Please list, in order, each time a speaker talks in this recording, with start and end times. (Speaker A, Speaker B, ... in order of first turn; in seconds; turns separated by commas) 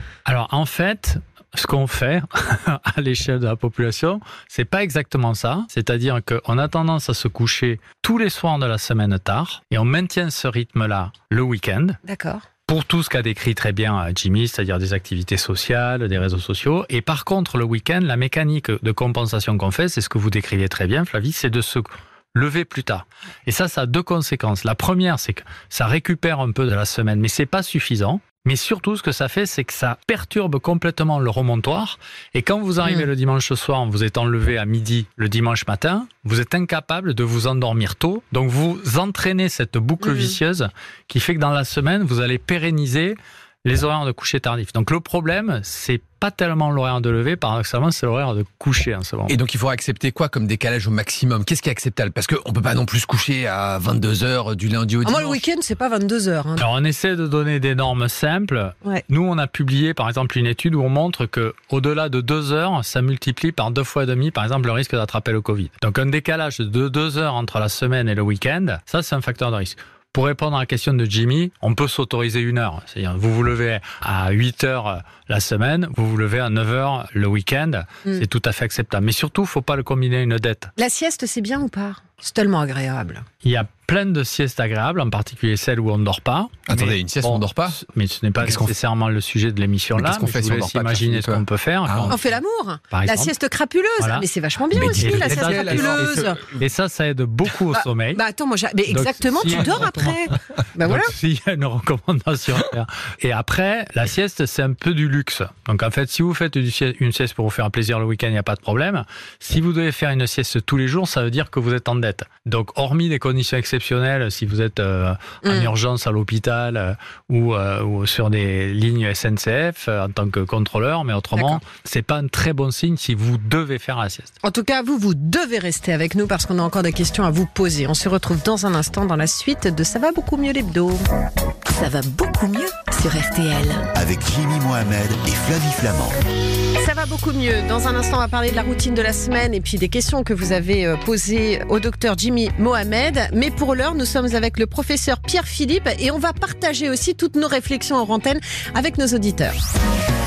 Speaker A: 0.2-12.0, Speaker B: 12.1-12.4, Speaker A: 12.7-49.4, Speaker B: 40.0-40.4, Speaker C: 49.3-55.4, Speaker B: 55.0-56.6, Speaker A: 56.6-80.7, Speaker B: 80.8-83.2, Speaker A: 83.4-92.2, Speaker C: 86.7-87.8, Speaker C: 88.4-88.7, Speaker C: 90.0-92.2, Speaker B: 92.1-96.4, Speaker A: 92.9-93.3, Speaker A: 94.0-94.2, Speaker C: 94.7-96.6, Speaker A: 94.9-98.2, Speaker B: 97.7-101.1, Speaker A: 98.9-124.3, Speaker B: 115.4-115.7, Speaker B: 121.3-121.6, Speaker B: 124.4-131.0, Speaker D: 131.7-133.9, Speaker E: 133.9-136.2, Speaker B: 136.8-149.6